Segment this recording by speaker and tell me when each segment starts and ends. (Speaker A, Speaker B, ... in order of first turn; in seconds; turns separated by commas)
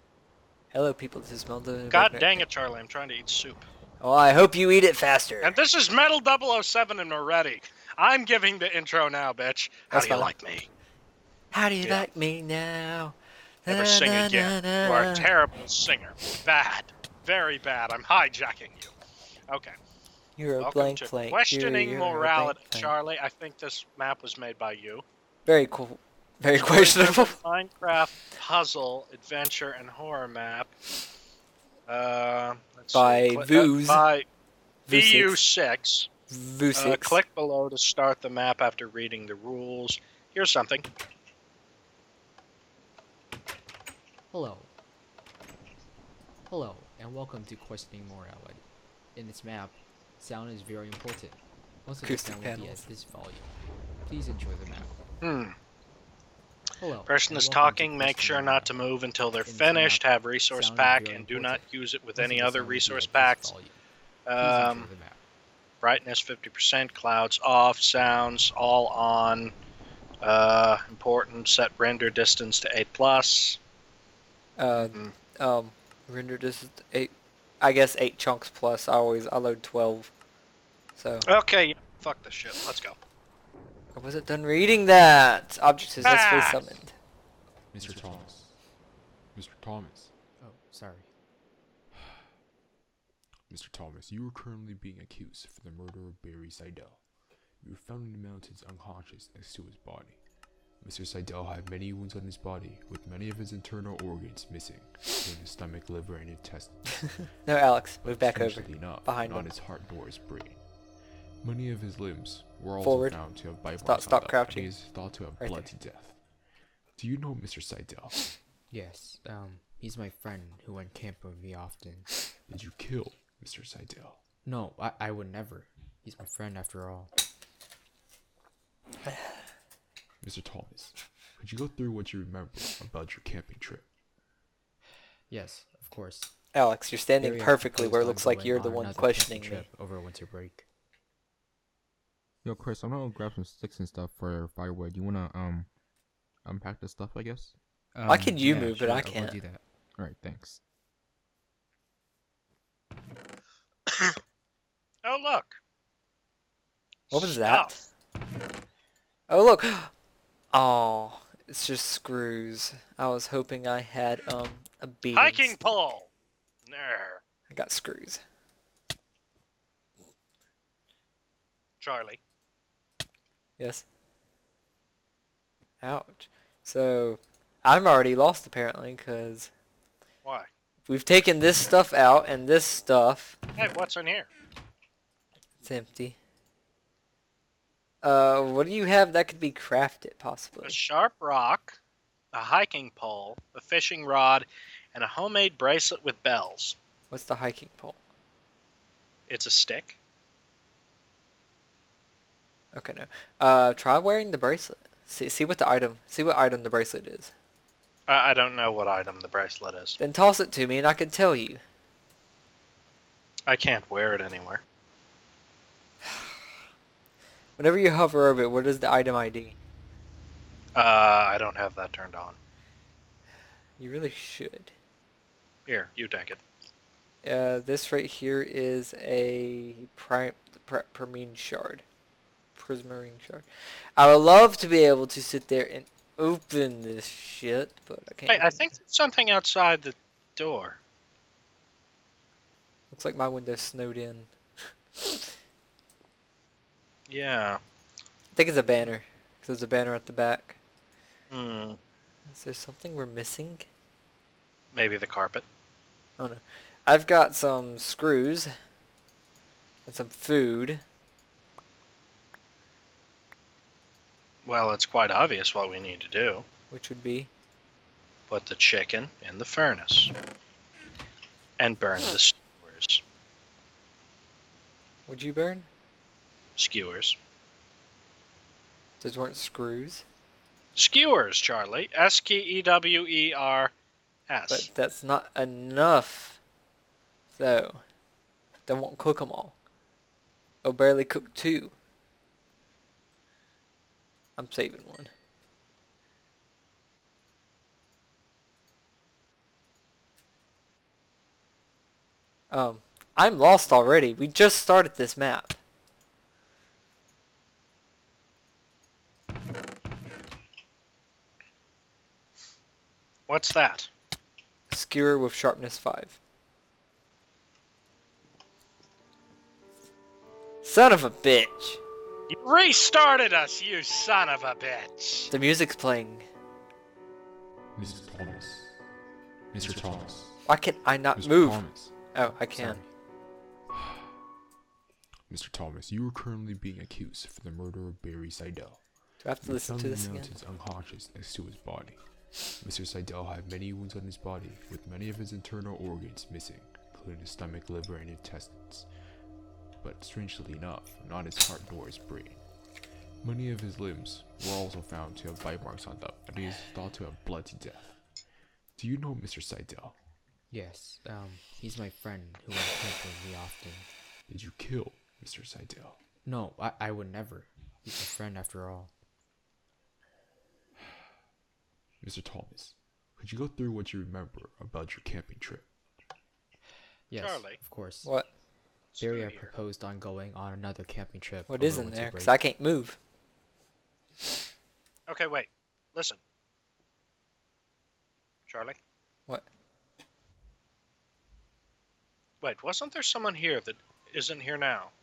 Speaker A: 0.7-2.4, Speaker B: 1.9-3.7, Speaker A: 4.0-5.6, Speaker B: 5.4-10.7, Speaker A: 9.9-10.3, Speaker A: 11.5-15.3, Speaker B: 11.8-12.1, Speaker B: 13.7-18.9, Speaker B: 19.5-19.7, Speaker A: 20.4-22.9, Speaker B: 20.6-25.0, Speaker A: 25.4-27.4, Speaker B: 26.5-30.7, Speaker B: 31.9-34.3, Speaker A: 32.9-34.0, Speaker A: 34.9-35.4, Speaker B: 34.9-36.1, Speaker A: 36.3-37.2, Speaker B: 36.7-40.9, Speaker C: 44.3-44.7, Speaker C: 46.5-55.0, Speaker A: 52.0-52.8, Speaker B: 55.2-55.5, Speaker C: 56.8-58.7, Speaker B: 57.0-63.5, Speaker C: 59.4-63.8, Speaker B: 64.2-64.9, Speaker C: 64.4-65.2, Speaker B: 65.8-69.5, Speaker B: 70.2-73.6, Speaker A: 74.6-80.1, Speaker B: 74.7-75.1, Speaker A: 81.0-81.3, Speaker B: 81.2-83.0, Speaker A: 83.9-86.9, Speaker B: 86.0-86.6, Speaker D: 87.7-88.5, Speaker D: 89.3-90.1, Speaker C: 90.4-91.1, Speaker D: 93.5-97.0, Speaker D: 97.6-100.2, Speaker D: 100.8-107.3, Speaker A: 107.4-109.5, Speaker D: 108.0-110.6, Speaker D: 111.4-116.2, Speaker A: 112.8-115.7, Speaker D: 117.0-118.3, Speaker C: 118.7-122.2, Speaker D: 122.5-124.2, Speaker C: 124.4-127.1, Speaker A: 129.0-129.3, Speaker D: 130.2-133.9, Speaker C: 135.3-136.3, Speaker A: 136.5-139.7, Speaker C: 137.2-140.7, Speaker E: 142.4-145.7, Speaker E: 146.5-147.5, Speaker C: 147.9-149.6, Speaker A: 148.1-149.4, Speaker B: 155.0-155.6, Speaker B: 157.1-157.8, Speaker A: 157.1-157.8, Speaker A: 159.3-159.9, Speaker A: 160.5-165.6, Speaker B: 165.1-166.1, Speaker B: 166.7-167.2, Speaker A: 167.5-168.2, Speaker B: 171.8-172.2, Speaker A: 173.6-173.8, Speaker A: 175.8-179.5, Speaker B: 180.2-180.5, Speaker A: 180.9-183.4, Speaker B: 183.6-184.3, Speaker A: 185.6-186.2, Speaker A: 188.0-190.8, Speaker B: 190.6-191.8, Speaker B: 192.3-196.8, Speaker A: 197.1-198.0, Speaker B: 199.3-199.9, Speaker A: 202.7-207.3, Speaker B: 208.1-210.0, Speaker A: 210.0-211.6, Speaker B: 213.5-214.6, Speaker A: 217.6-219.6, Speaker B: 220.8-222.4, Speaker A: 223.8-224.7, Speaker B: 225.7-226.4, Speaker A: 227.2-231.8, Speaker A: 232.6-233.4, Speaker A: 234.0-238.5, Speaker B: 238.3-240.8, Speaker A: 242.9-244.3, Speaker A: 245.0-245.3, Speaker B: 247.1-247.6, Speaker A: 248.3-250.6, Speaker B: 251.3-251.8, Speaker A: 252.3-253.7, Speaker B: 254.7-255.4, Speaker A: 256.2-258.5, Speaker A: 259.9-260.8, Speaker B: 264.4-266.4, Speaker A: 266.7-267.3, Speaker B: 268.3-270.1, Speaker B: 271.6-273.0, Speaker A: 275.1-275.7, Speaker B: 276.6-277.1, Speaker A: 279.0-280.0, Speaker B: 280.8-283.7, Speaker B: 284.3-284.7, Speaker A: 284.5-286.4, Speaker A: 287.4-287.8, Speaker A: 288.7-289.5, Speaker A: 290.6-291.7, Speaker A: 294.4-295.1, Speaker A: 302.5-305.6, Speaker B: 313.3-313.9, Speaker A: 314.7-316.2, Speaker A: 320.6-321.8, Speaker B: 322.3-325.3, Speaker A: 325.3-326.2, Speaker D: 327.8-328.7, Speaker D: 329.5-330.2, Speaker A: 330.4-332.8, Speaker D: 331.1-331.9, Speaker C: 332.5-332.9, Speaker D: 335.3-338.9, Speaker A: 339.2-340.3, Speaker D: 339.4-348.9, Speaker D: 349.8-352.4, Speaker D: 353.2-358.0, Speaker D: 358.7-360.0, Speaker C: 360.5-363.9, Speaker D: 364.3-366.0, Speaker C: 366.2-368.9, Speaker D: 372.0-375.7, Speaker C: 377.1-378.4, Speaker B: 377.2-377.6, Speaker A: 378.0-378.3, Speaker B: 378.9-379.5, Speaker C: 379.0-382.4, Speaker A: 381.5-383.0, Speaker B: 385.1-386.2, Speaker B: 388.5-388.8, Speaker B: 392.4-394.9